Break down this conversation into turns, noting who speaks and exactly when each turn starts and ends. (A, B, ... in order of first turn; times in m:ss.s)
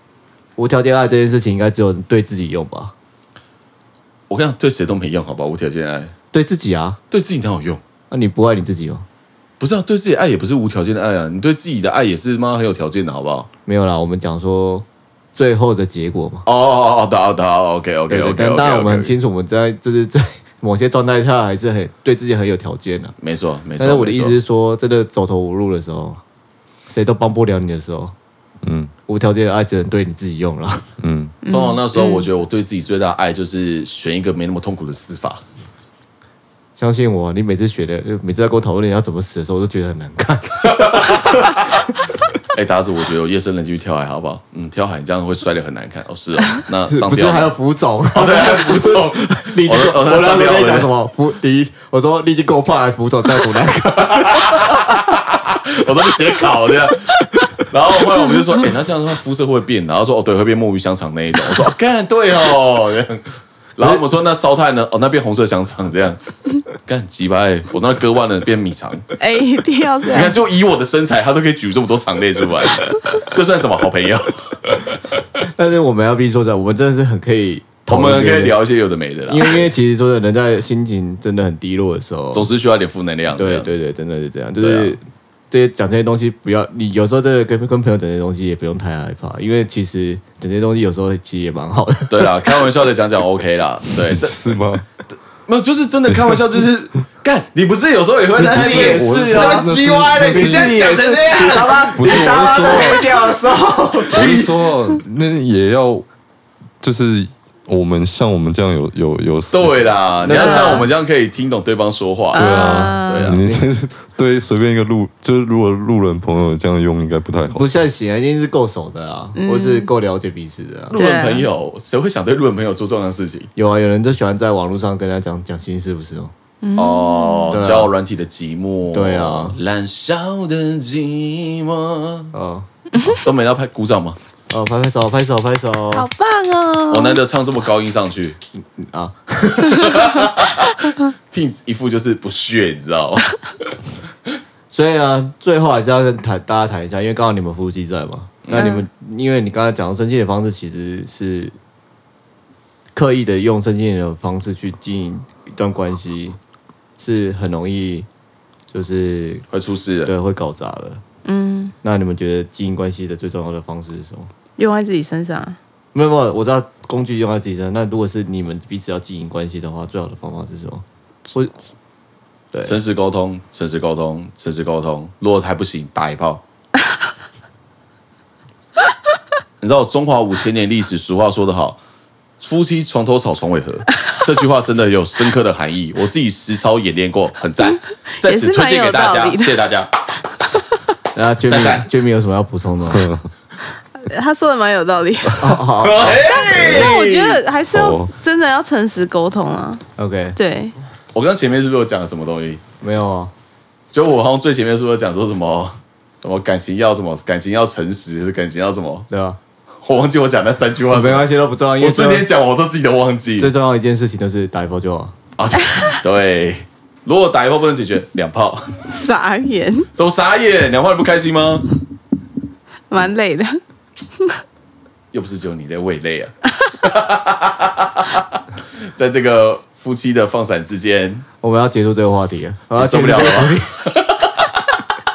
0:00.6-0:02.9 A
0:04.3-0:06.1 B
0:06.3-0:07.0 A
0:07.1-0:07.8 B
0:08.1-0:09.1 A
0:09.6-0:13.5 B
0:13.7-0:16.4 A
0:16.5-0:19.1 B
0:18.1-0:23.1 A
0:23.2-0:24.4 B
0:23.8-0:26.2 A
0:26.9-0:28.1 A
0:28.6-0:28.9 C
0:29.1-0:30.8 A
0:31.0-0:31.4 C
0:31.4-0:32.3 D
0:31.5-0:35.4 B
0:36.8-0:41.6 A
0:40.6-0:41.9 B
0:42.5-0:47.5 B
0:46.9-0:55.0 A
0:48.1-0:50.9 B
0:54.1-1:06.2 B
1:06.8-1:09.0 B
1:09.2-1:10.4 D
1:10.1-1:15.2 B
1:15.4-1:18.6 A
1:17.9-1:19.7 B
1:19.3-1:22.5 A
1:22.3-1:23.7 B
1:23.4-1:32.7 A
1:24.6-1:25.0 B
1:32.1-1:34.5 B
1:34.0-1:34.9 C
1:35.5-1:43.0 B
1:36.1-1:36.4 C
1:38.4-1:41.1 C
1:38.4-1:44.5 A
1:42.0-1:43.1 C
1:44.1-1:46.1 C
1:44.1-1:44.5 B
1:46.8-1:50.0 C
1:49.5-1:53.4 B
1:50.2-1:50.9 A
1:50.4-1:50.9 D
1:52.3-1:53.3 D
1:52.3-1:57.6 C
1:53.4-1:53.6 A
1:57.5-2:01.0 A
1:59.4-1:59.9 D
2:00.9-2:03.5 B
2:00.9-2:01.5 D
2:03.6-2:06.3 A
2:06.6-2:07.6 D
2:06.8-2:12.3 B
2:07.5-2:07.9 A
2:08.9-2:09.6 A
2:12.3-2:12.7 A
2:13.0-2:13.2 D
2:13.0-2:14.2 B
2:14.5-2:16.1 A
2:15.9-2:17.2 D
2:16.9-2:18.4 B
2:18.6-2:20.0 A
2:19.7-2:23.4 B
2:24.7-2:31.6 A
2:28.4-2:28.8 B
2:28.6-2:28.8 D
2:32.9-2:36.4 A
2:37.0-2:38.1 A
2:38.7-2:39.4 A
2:39.5-2:40.1 B
2:40.0-2:41.0 A
2:41.2-2:41.7 D
2:41.8-2:44.3 A
2:44.6-2:45.6 D
2:45.9-2:51.6 A
2:52.6-2:56.4 B
2:59.6-3:01.8 B
3:02.4-3:09.9 B
3:08.2-3:09.5 D
3:11.2-3:13.1 A
3:11.5-3:11.9 B
3:12.9-3:13.3 C
3:14.0-3:19.8 D
3:15.4-3:16.8 A
3:15.8-3:17.4 B
3:16.5-3:16.9 C
3:17.7-3:18.1 C
3:20.0-3:20.4 A
3:20.4-3:20.8 D
3:21.1-3:22.6 B
3:22.8-3:23.3 A
3:23.9-3:29.1 B
3:29.1-3:29.4 A
3:29.8-3:31.3 B
3:30.9-3:32.3 A
3:31.8-3:33.5 B
3:33.4-3:35.2 A
3:35.4-3:38.9 B
3:38.9-3:39.9 D
3:40.0-3:41.7 B
3:42.9-3:43.6 D
3:45.1-3:48.4 B
3:49.0-3:51.2 B
3:51.4-3:53.7 A
3:52.8-3:54.8 B